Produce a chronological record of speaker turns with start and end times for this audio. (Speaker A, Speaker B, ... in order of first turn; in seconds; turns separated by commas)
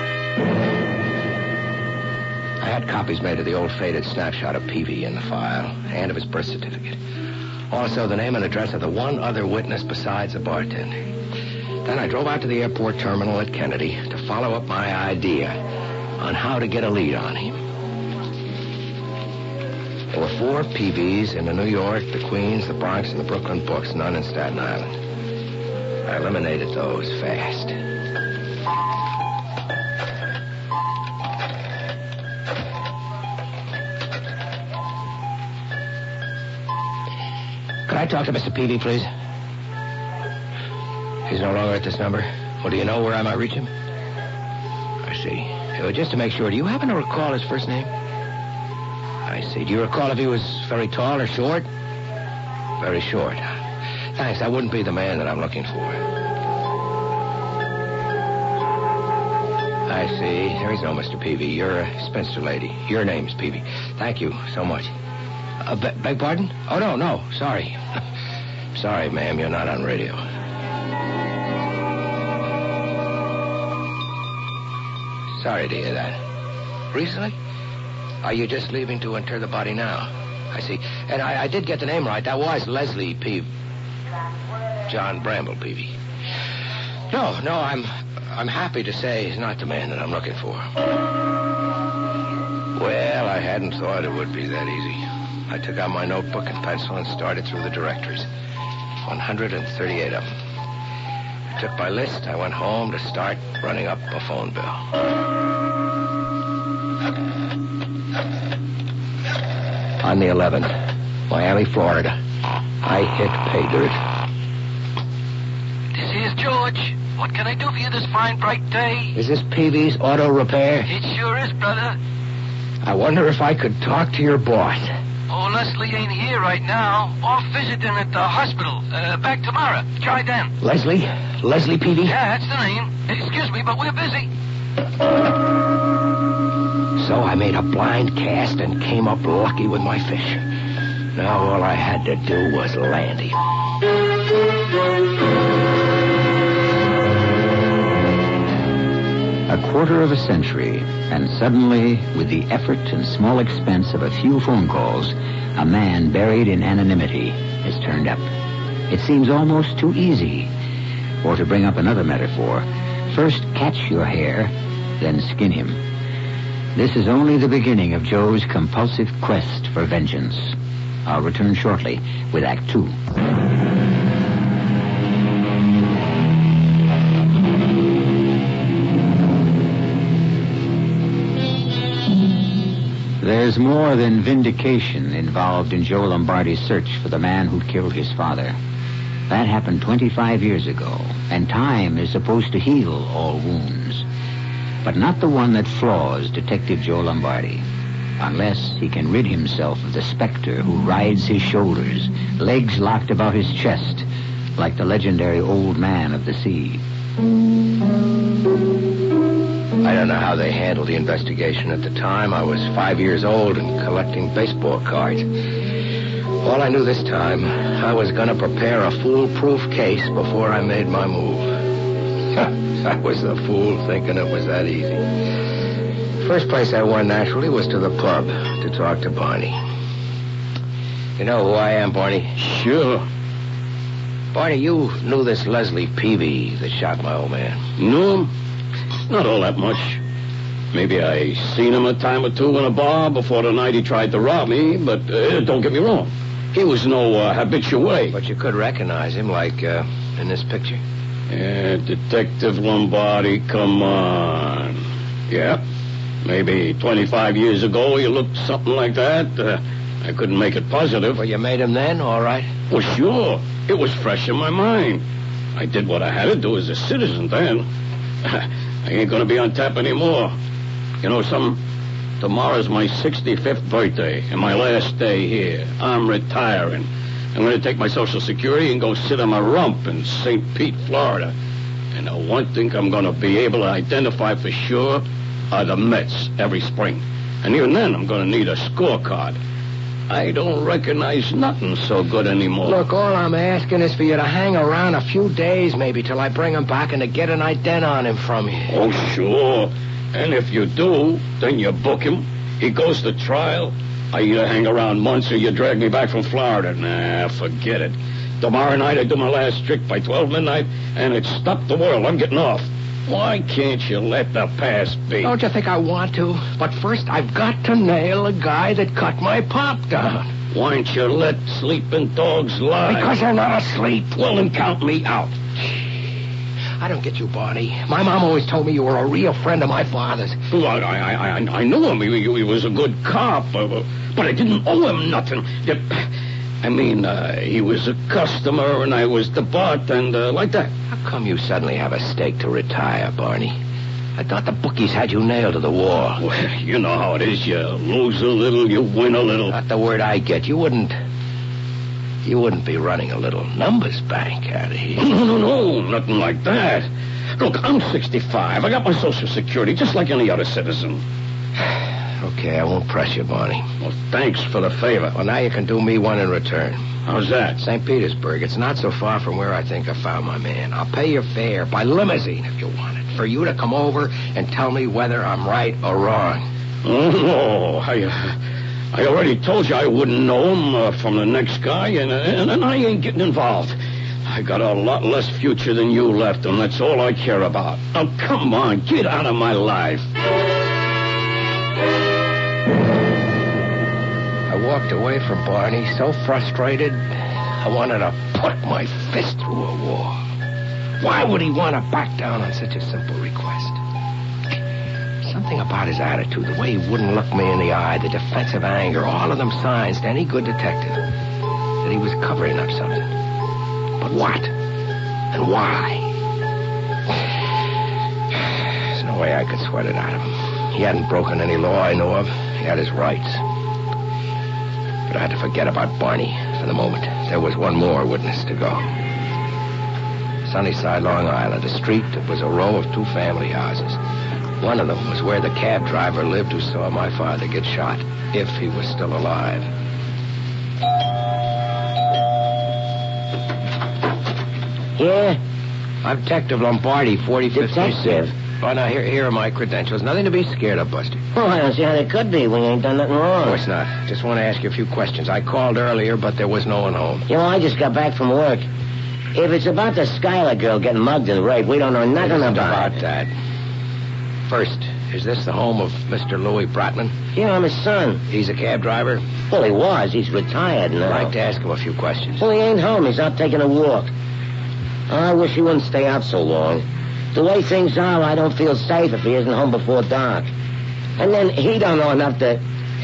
Speaker A: 2.6-7.0, Speaker A: 7.7-10.9, Speaker A: 11.8-15.6, Speaker A: 16.2-17.6, Speaker A: 20.1-24.9, Speaker A: 26.1-27.8, Speaker A: 37.9-39.1, Speaker A: 41.3-43.7, Speaker A: 45.0-47.9, Speaker A: 49.3-51.7, Speaker A: 52.8-53.4, Speaker A: 54.2-56.0, Speaker A: 59.9-64.9, Speaker A: 65.6-67.8, Speaker A: 68.7-70.2, Speaker A: 75.4-76.2, Speaker A: 76.9-77.3, Speaker A: 78.2-83.5, Speaker A: 84.9-86.0, Speaker A: 87.1-90.6, Speaker A: 92.8-98.3, Speaker A: 99.0-100.3, Speaker A: 101.6-104.8, Speaker A: 110.0-110.7, Speaker A: 111.3-112.1, Speaker A: 112.8-114.0, Speaker B: 116.0-119.2, Speaker A: 119.2-120.9, Speaker B: 120.9-122.0, Speaker A: 122.8-124.9, Speaker B: 125.3-130.5, Speaker A: 130.6-132.2, Speaker B: 132.1-134.3, Speaker A: 137.0-140.4, Speaker A: 141.2-143.4, Speaker C: 149.5-158.3, Speaker C: 158.9-160.5, Speaker C: 161.2-165.8, Speaker C: 166.8-173.0, Speaker C: 183.2-188.6, Speaker C: 189.3-194.1, Speaker C: 194.8-197.7, Speaker C: 198.2-204.1, Speaker C: 204.6-206.8, Speaker A: 209.8-215.2, Speaker A: 216.4-221.5, Speaker A: 222.3-225.1, Speaker A: 226.2-229.6, Speaker A: 231.2-232.3, Speaker D: 232.4-233.1, Speaker A: 234.3-237.6, Speaker D: 237.8-238.3, Speaker D: 239.1-240.0, Speaker D: 240.7-248.1, Speaker A: 248.1-250.8, Speaker D: 251.3-255.6, Speaker D: 256.2-261.2, Speaker A: 261.1-262.5, Speaker D: 262.7-265.0, Speaker D: 265.6-267.7, Speaker D: 268.2-270.3, Speaker D: 271.0-271.6, Speaker D: 272.2-281.3, Speaker D: 281.9-289.4, Speaker D: 290.1-292.8, Speaker A: 292.6-298.7, Speaker D: 298.7-315.3, Speaker A: 315.2-320.3, Speaker D: 320.5-323.1, Speaker A: 322.9-324.1, Speaker D: 324.1-325.3, Speaker A: 326.8-330.4, Speaker D: 330.5-336.0, Speaker D: 336.6-340.7, Speaker A: 340.9-343.6, Speaker A: 344.2-346.2, Speaker D: 346.2-349.6, Speaker A: 349.5-350.9, Speaker A: 352.2-355.1, Speaker D: 355.0-361.0, Speaker A: 362.2-363.6, Speaker D: 363.8-365.1, Speaker A: 365.1-366.8, Speaker D: 367.1-367.6, Speaker A: 367.6-376.4, Speaker D: 376.8-378.4, Speaker D: 378.9-390.1, Speaker A: 394.5-400.2, Speaker A: 401.0-403.8, Speaker A: 405.2-411.0, Speaker A: 411.8-413.1, Speaker A: 414.0-414.5, Speaker A: 415.3-416.1, Speaker A: 418.9-423.4, Speaker A: 425.1-428.9, Speaker A: 430.5-434.0, Speaker A: 434.6-439.7, Speaker E: 445.0-445.4, Speaker A: 446.0-451.2, Speaker E: 447.5-448.3, Speaker E: 451.4-453.6, Speaker A: 453.5-457.3, Speaker E: 457.3-458.7, Speaker E: 459.4-463.0, Speaker A: 462.2-463.3, Speaker A: 464.5-467.2, Speaker E: 467.4-468.2, Speaker A: 468.3-469.2, Speaker E: 469.5-471.3, Speaker A: 471.1-472.4, Speaker E: 472.4-474.1, Speaker E: 475.1-480.5, Speaker E: 481.2-482.6